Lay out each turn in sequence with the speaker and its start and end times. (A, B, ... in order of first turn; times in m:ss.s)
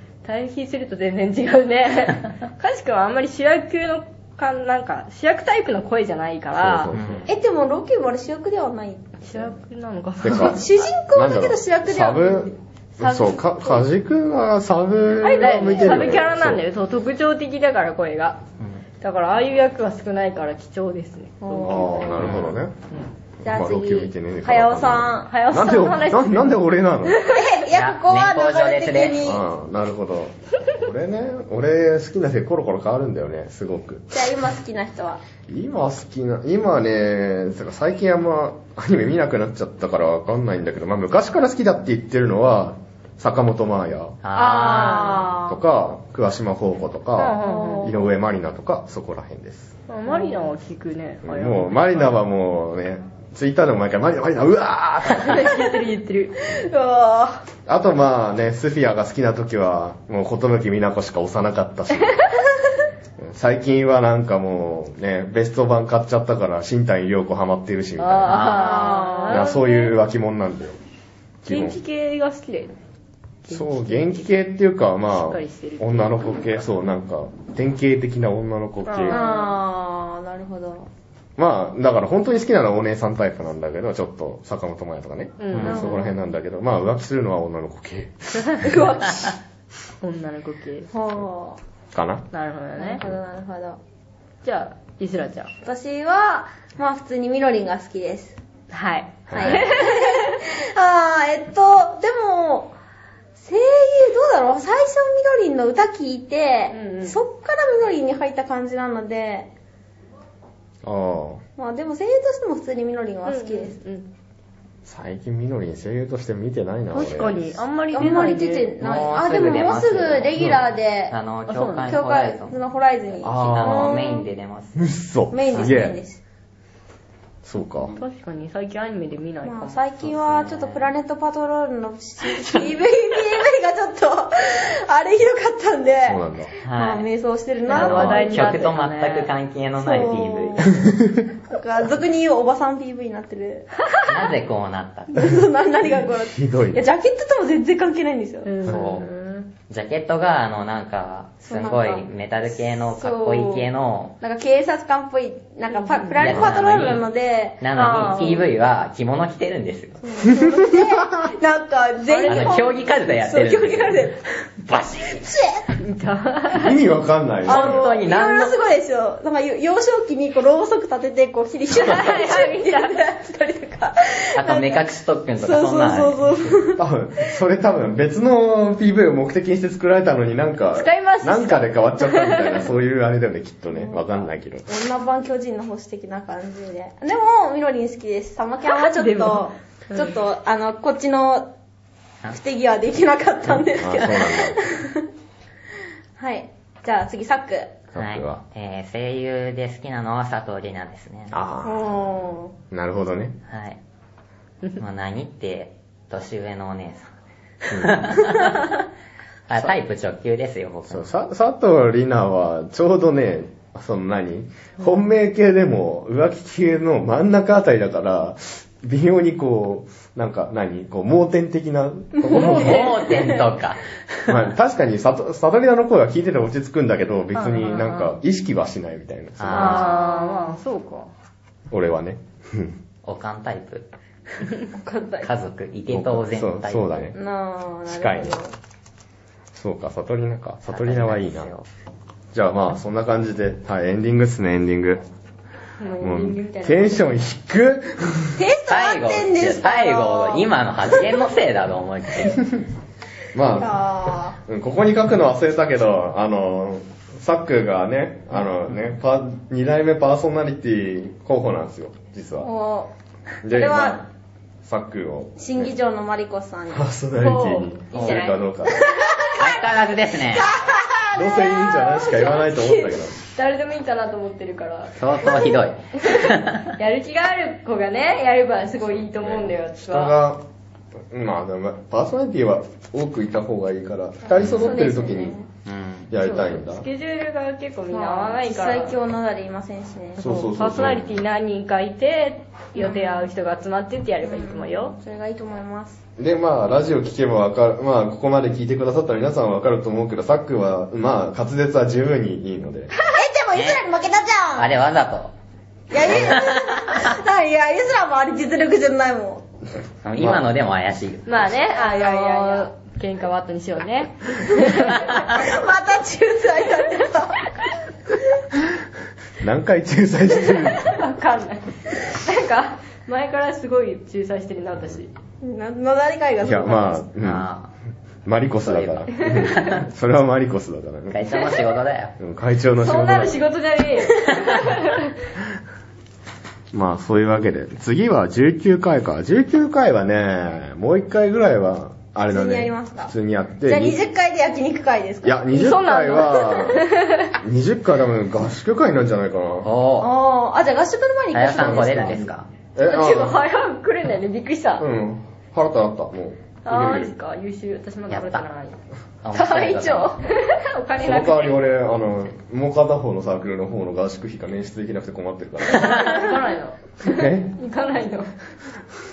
0:00.2-0:06.9 A
0:06.6-0:07.3 B
0:06.9-0:07.3 C
0:07.3-0:09.5 D
0:09.2-0:10.6 A
0:10.2-0:16.6 B
0:10.4-0:12.6 D
0:13.0-0:13.8 A
0:15.2-0:18.4 A
0:19.0-0:22.2 A
0:21.4-0:22.4 D
0:21.6-0:22.8 B
0:23.4-0:25.3 D
0:23.4-0:27.2 B
0:25.3-0:27.5 A
0:27.3-0:29.4 D
0:27.7-0:29.3 C
0:29.2-0:34.1 B
0:34.1-0:35.2 D
0:35.5-0:44.2 B
0:44.2-0:45.3 C
0:44.4-0:45.3 A
0:44.4-0:45.6 D
0:45.4-0:49.7 B
0:47.2-0:47.9 A
0:47.4-0:48.1 D
0:49.9-0:52.2 A
0:50.1-0:50.4 D
0:51.2-0:55.6 B
0:55.1-0:56.4 A
0:56.4-0:57.4 D
0:57.6-1:02.4 B
1:03.2-1:08.7 B
1:08.0-1:09.9 A
1:08.3-1:08.9 C
1:08.4-1:09.6 D
1:09.3-1:10.8 B
1:11.4-1:11.8 B
1:11.4-1:12.8 A
1:13.4-1:14.3 A
1:13.5-1:19.2 B
1:15.1-1:16.4 A
1:18.9-1:19.6 A
1:19.1-1:20.9 D
1:21.4-1:28.8 B
1:25.4-1:25.9 A
1:25.5-1:25.8 C
1:25.6-1:26.1 D
1:28.3-1:29.4 A
1:30.0-1:30.9 A
1:30.9-1:31.6 D
1:31.9-1:32.3 B
1:32.3-1:33.0 A
1:32.8-1:33.8 D
1:34.4-1:35.5 A
1:35.6-1:38.4 D
1:38.7-1:40.4 A
1:39.3-1:39.6 B
1:39.3-1:42.7 D
1:43.4-1:49.5 D
1:46.7-1:47.2 A
1:50.8-1:51.4 B
1:51.6-1:53.8 D
1:53.3-1:54.1 A
1:54.8-1:57.5 B
1:56.9-1:58.7 A
1:57.9-2:01.1 D
1:58.8-2:02.6 C
2:01.5-2:02.0 A
2:01.9-2:04.2 D
2:03.2-2:03.9 B
2:03.2-2:04.9 C
2:04.8-2:06.0 B
2:05.3-2:06.2 D
2:05.5-2:05.8 C
2:07.4-2:07.9 B
2:07.8-2:09.8 A
2:09.4-2:16.2 D
2:10.1-2:10.9 C
2:16.0-2:16.5 B
2:16.6-2:17.1 C
2:16.7-2:18.8 D
2:17.7-2:19.3 A
2:17.7-2:20.7 C
2:19.8-2:20.8 D
2:20.9-2:21.2 B
2:21.5-2:23.7 D
2:24.1-2:25.3 C
2:25.1-2:28.5 D
2:26.3-2:26.8 B
2:28.4-2:29.5 A
2:28.6-2:29.1 C
2:29.7-2:34.2 C
2:31.5-2:32.0 D
2:32.9-2:33.6 D
2:34.2-2:37.6 D
2:36.2-2:37.1 C
2:37.6-2:40.0 C
2:37.7-2:38.5 A
2:40.0-2:44.2 D
2:40.4-2:40.9 B
2:42.1-2:42.6 A
2:42.2-2:45.3 C
2:45.2-2:45.6 D
2:45.8-2:46.8 A
2:46.5-2:48.0 B
2:47.4-2:54.8 D
2:47.4-2:48.6 C
2:51.8-2:53.0 A
2:54.4-2:56.6 C
2:55.4-2:56.8 D
2:56.8-3:04.7 B
3:00.8-3:02.6 A
3:03.8-3:11.5 D
3:08.7-3:10.1 A
3:12.3-3:15.1 D
3:13.5-3:14.6 B
3:16.2-3:17.8 D
3:17.9-3:18.4 B
3:18.0-3:21.4 C
3:21.3-3:21.8 B
3:21.6-3:22.5 D
3:22.7-3:23.4 B
3:23.5-3:23.8 C
3:24.8-3:28.8 C
3:27.7-3:28.5 B
3:29.5-3:31.0 C
3:30.9-3:43.1 B
3:42.2-3:43.4 D
3:42.3-3:44.4 C
3:44.3-3:50.0 B
3:47.3-3:48.1 A
3:49.4-3:50.1 C
3:49.5-3:51.1 A
3:49.7-3:50.5 D
3:51.7-3:52.8 B
3:53.0-3:53.9 C
3:54.7-3:55.3 D
3:55.2-3:57.1 C
3:55.9-3:57.2 B
3:57.1-3:58.5 D
3:57.9-3:58.4 B
3:59.5-4:01.5 B
4:00.7-4:01.7 C
4:02.3-4:05.0 B
4:05.8-4:07.1 A
4:06.0-4:08.4 B
4:08.4-4:10.5 D
4:08.7-4:12.5 C
4:13.4-4:13.7 B
4:13.5-4:14.4 D
4:14.4-4:22.5 B
4:22.4-4:22.9 D
4:23.4-4:24.1 B
4:23.5-4:24.0 D
4:24.6-4:25.7 B
4:25.4-4:26.9 D
4:26.7-4:28.9 B
4:27.2-4:28.4 A
4:27.9-4:28.2 C
4:28.7-4:29.6 D
4:29.3-4:30.6 C
4:30.3-4:32.7 D
4:31.1-4:33.2 B
4:33.2-4:34.9 A
4:35.0-4:36.7 C
4:36.1-4:40.2 A
4:39.8-4:40.4 B
4:41.1-4:45.4 B
4:44.5-4:45.5 D
4:44.6-4:45.2 A
4:45.6-4:46.1 C
4:46.1-4:46.8 B
4:46.2-4:49.0 A
4:47.9-4:50.3 D
4:50.2-4:51.2 B
4:50.2-4:54.9 A
4:52.8-4:53.3 D
4:54.2-4:56.0 D
4:56.2-5:02.9 B
5:02.9-5:04.7 D
5:03.5-5:03.8 C
5:04.6-5:05.3 C
5:05.9-5:09.4 D
5:06.0-5:07.1 C
5:10.0-5:11.3 C
5:11.3-5:15.2 A
5:11.7-5:12.7 D
5:14.8-5:17.4 D
5:19.4-5:21.0 B
5:20.5-5:25.1 A
5:25.4-5:27.0 D
5:26.4-5:27.5 B
5:27.2-5:27.7 C
5:28.3-5:31.3 B
5:28.6-5:29.8 C
5:31.1-5:32.1 C
5:32.2-5:33.4 B
5:32.8-5:35.1 A
5:36.7-5:44.0 B
5:42.3-5:43.1 D
5:43.7-5:45.4 D
5:45.2-5:49.7 B
5:45.5-5:47.3 A
5:49.6-5:50.1 C
5:50.0-5:52.2 D
5:51.3-5:52.5 C
5:51.5-5:53.4 B
5:52.8-5:54.8 A
5:54.8-5:57.1 B
5:56.6-5:58.8 A
5:58.1-5:58.4 C
5:59.2-6:00.2 C
5:59.3-6:01.6 A
6:01.0-6:06.3 B
6:05.7-6:08.3 A
6:07.0-6:07.5 B